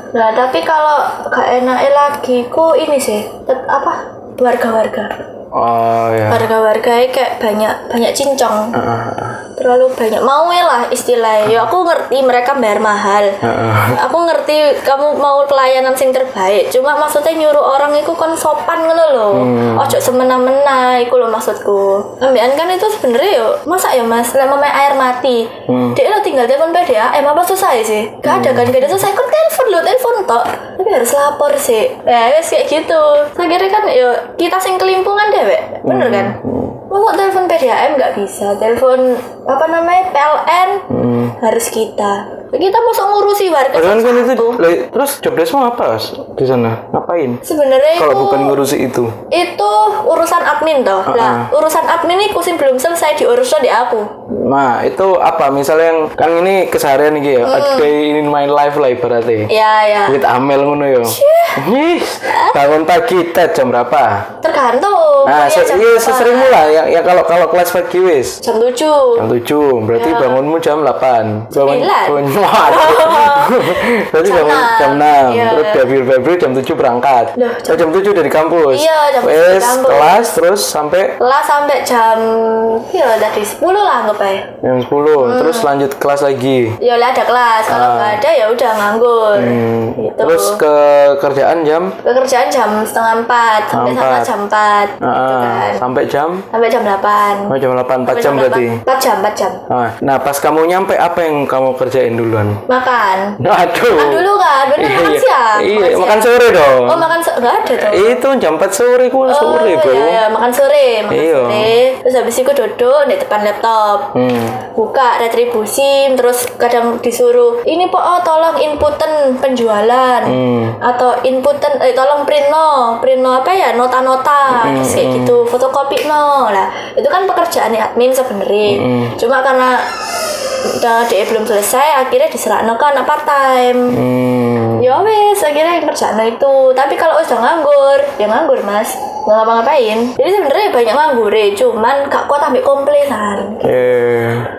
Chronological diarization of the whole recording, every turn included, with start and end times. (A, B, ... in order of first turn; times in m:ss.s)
0:00.1-0:05.1 A
0:05.5-0:06.4 B
0:06.3-0:08.7 A
0:08.7-0:09.4 B
0:09.6-0:36.4 A
0:13.4-0:14.0 B
0:19.3-0:20.0 B
0:25.7-0:26.0 B
0:28.2-0:28.8 B
0:35.8-0:36.8 B
0:36.9-0:40.8 A
0:40.9-0:41.4 B
0:41.4-0:44.6 A
0:43.7-0:47.4 B
0:47.4-0:48.6 A
0:47.9-0:49.1 B
0:49.3-0:54.1 A
0:51.1-0:51.5 B
0:54.3-0:59.5 B
0:57.4-0:57.9 A
0:59.5-1:00.2 A
1:00.1-1:04.2 B
1:01.0-1:01.6 A
1:02.3-1:02.6 A
1:04.4-1:06.8 A
1:05.2-1:08.4 B
1:08.4-1:09.2 A
1:09.2-1:21.2 B
1:09.9-1:10.4 A
1:11.5-1:15.9 A
1:17.4-1:17.9 A
1:18.7-1:20.3 A
1:21.2-1:24.5 A
1:24.6-1:26.8 B
1:25.2-1:25.7 A
1:26.8-1:30.6 A
1:27.7-1:28.2 B
1:29.3-1:31.9 B
1:32.0-1:35.8 A
1:33.7-1:34.3 B
1:35.0-1:36.4 B
1:36.5-1:37.5 A
1:37.5-1:38.8 B
1:38.0-1:39.6 A
1:39.7-1:42.6 B
1:42.7-1:43.4 A
1:43.4-1:47.1 B
1:43.9-1:48.2 A
1:47.8-1:50.2 B
1:49.3-2:09.9 A
1:51.1-1:51.8 B
1:54.1-1:54.6 B
2:00.2-2:00.8 B
2:04.6-2:05.4 B
2:08.7-2:09.1 B
2:10.5-2:14.0 A
2:13.9-2:14.9 B
2:14.8-2:24.0 A
2:23.6-2:24.5 B